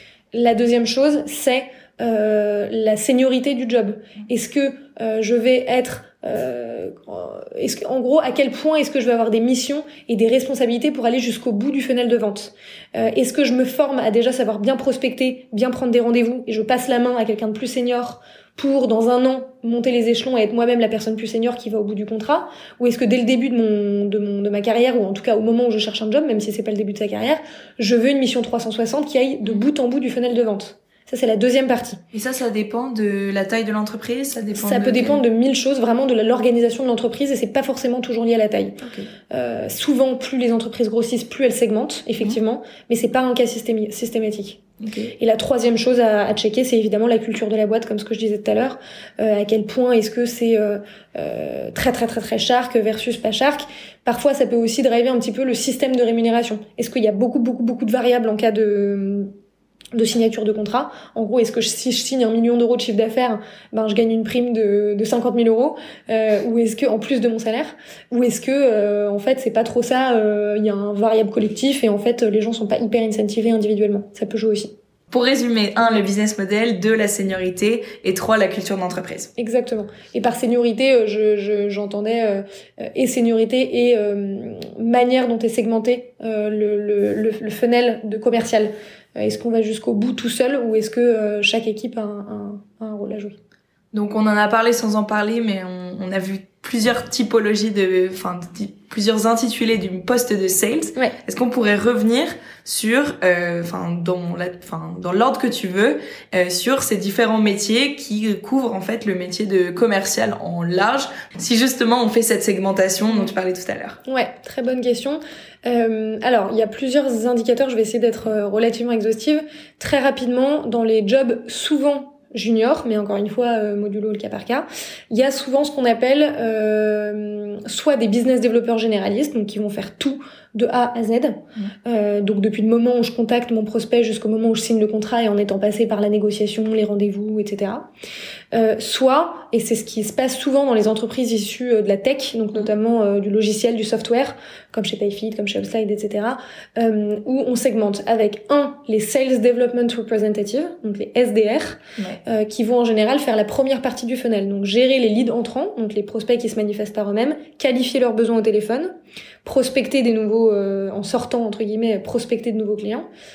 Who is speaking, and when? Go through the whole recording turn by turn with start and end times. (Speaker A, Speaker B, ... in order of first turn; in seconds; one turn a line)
Speaker A: 0.3-32.0
Speaker B: 32.1-35.2
Speaker A: 34.6-38.8
Speaker B: 38.8-39.1
Speaker A: 39.3-44.6
Speaker B: 44.8-45.1
Speaker A: 45.2-59.3
Speaker A: 59.9-74.7
Speaker B: 75.1-79.3
Speaker A: 79.4-93.4
Speaker B: 93.9-114.0
Speaker A: 114.1-137.9
Speaker A: 138.5-158.9
Speaker A: 159.4-163.1